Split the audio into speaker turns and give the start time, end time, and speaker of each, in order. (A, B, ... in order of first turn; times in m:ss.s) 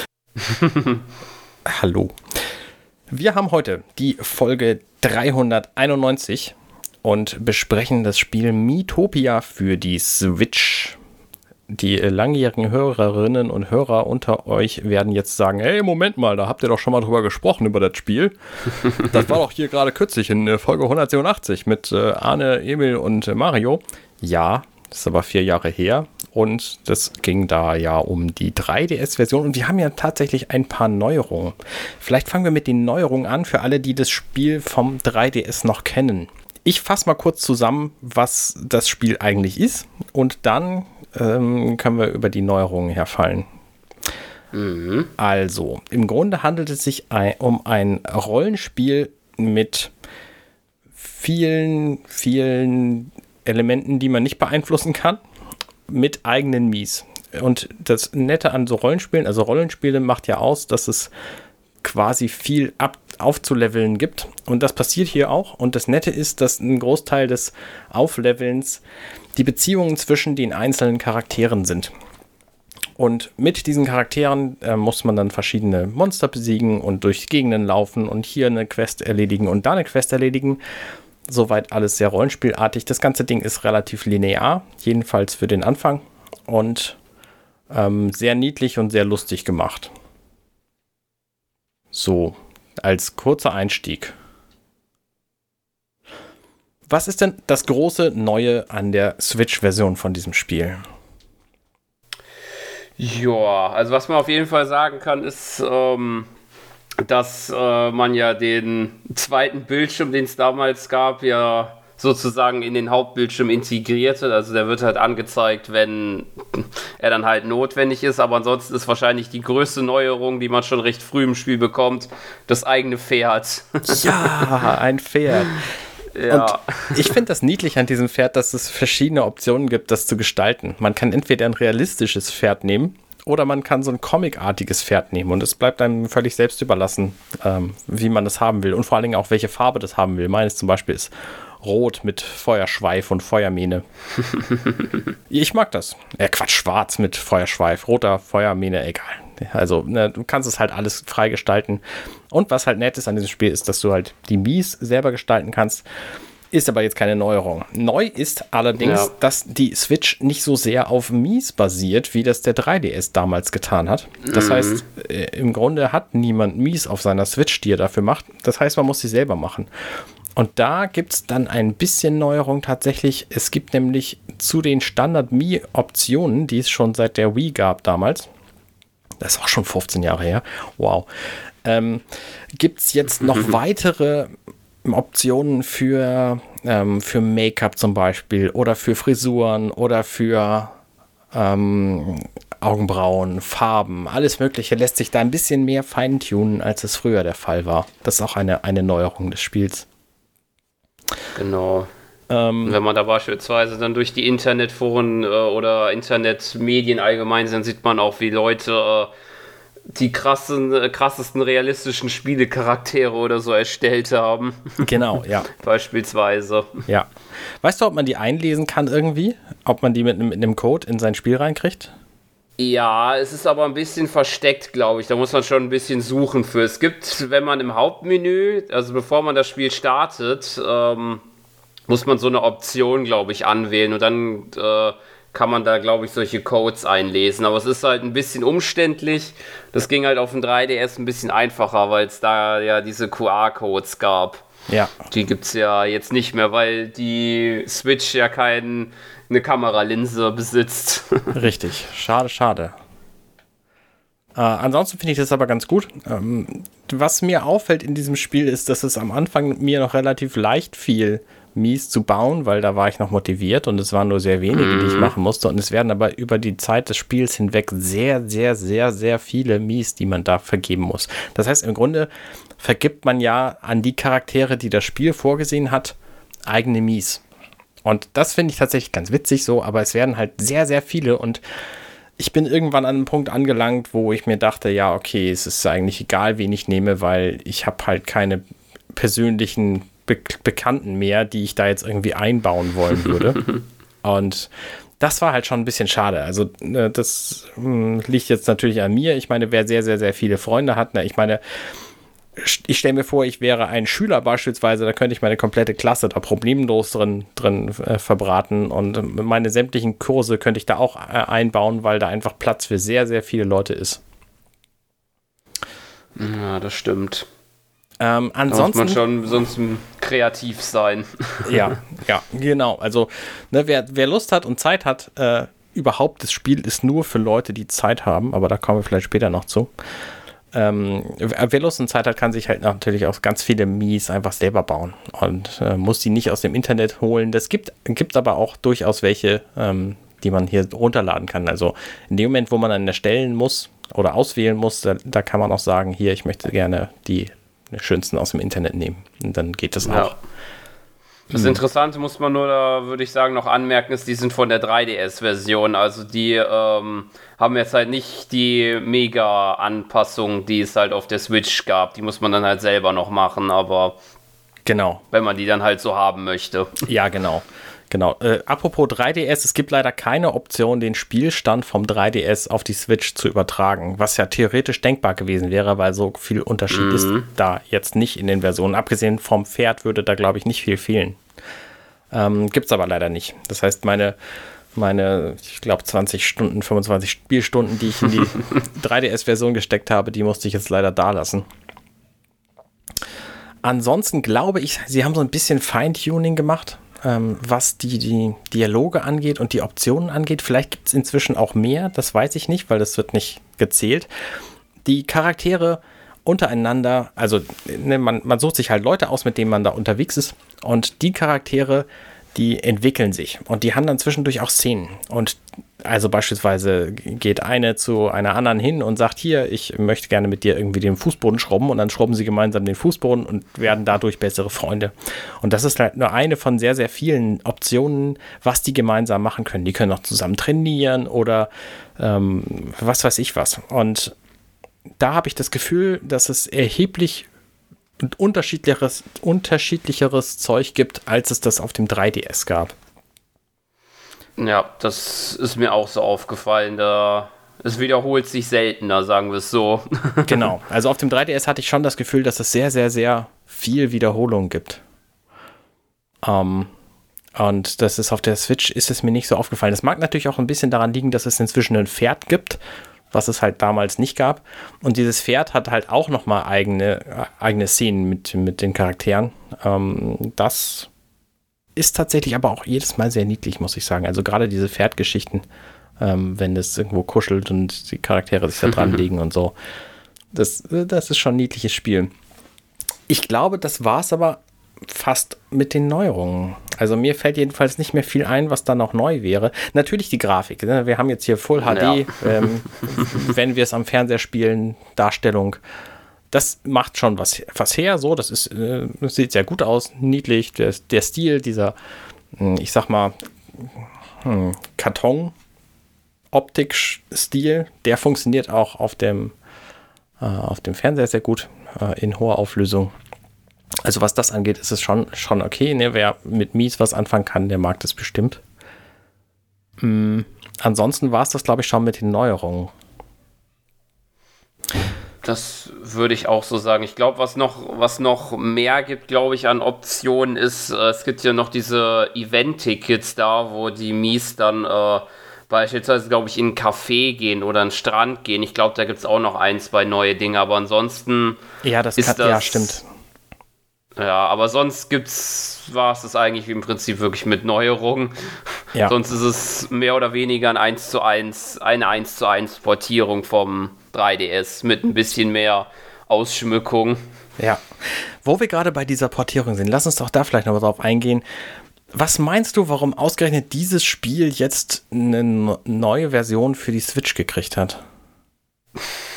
0:00.4-0:01.0 A
0:01.6-0:02.2 B
0:03.1-0:11.0 B
0:11.7-0:43.5 B
0:44.5-0:45.1 A
0:45.2-0:49.9 B
0:51.0-0:55.2 B
0:55.9-1:01.1 B
1:01.8-1:08.8 B
1:09.3-1:11.9 B
1:13.0-1:20.6 B
1:21.3-1:27.0 B
1:27.7-1:29.9 B
1:31.9-1:34.1 B
1:36.9-1:40.8 B
1:43.0-1:46.3 A
1:47.0-2:04.5 A
2:03.9-2:05.6 B
2:06.1-2:07.1 A
2:06.3-2:23.8 B
2:25.3-2:35.8 B
2:36.5-2:49.7 B
2:38.8-2:39.1 A
2:44.2-2:44.8 A
2:50.4-2:58.3 B
2:59.2-3:01.1 B
3:01.6-3:02.0 B
3:02.6-3:04.3 B
3:03.2-3:03.5 A
3:04.8-3:10.8 B
3:11.3-3:19.9 B
3:21.4-3:21.9 A
3:22.3-3:22.8 B
3:22.6-3:29.1 A
3:29.9-3:34.8 A
3:34.8-3:35.5 B
3:35.5-3:36.8 A
3:37.6-3:41.9 B
3:42.6-3:51.2 A
3:51.9-4:04.4 A
4:04.7-4:04.9 B
4:05.1-4:11.4 A
4:11.3-4:12.7 B
4:14.3-4:36.0 B
4:24.5-4:25.1 A
4:36.5-4:37.2 B
4:37.8-4:41.4 B
4:42.2-4:48.4 B
4:48.9-4:53.4 B
4:54.0-5:01.4 B
5:02.4-5:14.0 B
5:16.2-5:17.3 A
5:18.0-5:19.0 B
5:18.5-5:21.8 A
5:21.4-5:29.7 B
5:30.5-5:50.2 B
5:49.8-5:50.1 A
5:51.3-5:51.6 B
5:51.3-6:04.0 A
6:04.6-6:05.0 B
6:05.1-6:06.8 A
6:06.8-6:21.2 B
6:16.7-6:17.3 A
6:22.1-6:24.2 B
6:24.7-6:31.4 B
6:33.6-6:44.1 B
6:44.8-7:14.1 B
7:15.0-7:17.3 B
7:18.0-7:22.7 B
7:24.4-7:30.4 A
7:30.2-7:34.8 B
7:36.2-7:36.7 B
7:37.3-7:42.6 B
7:43.1-7:50.9 B
7:51.8-7:55.4 B
7:56.0-7:59.5 B
8:00.3-8:02.1 B
8:03.1-8:15.6 B
8:11.6-8:13.1 A
8:16.3-8:21.7 B
8:22.3-8:25.3 B
8:26.3-8:29.3 B
8:30.2-8:32.9 B
8:33.8-8:38.4 B
8:39.8-8:42.7 B
8:45.2-9:01.4 A
9:01.6-9:02.8 B
9:02.0-9:02.8 A
9:04.0-9:17.0 A
9:17.4-9:21.2 B
9:21.9-9:27.8 B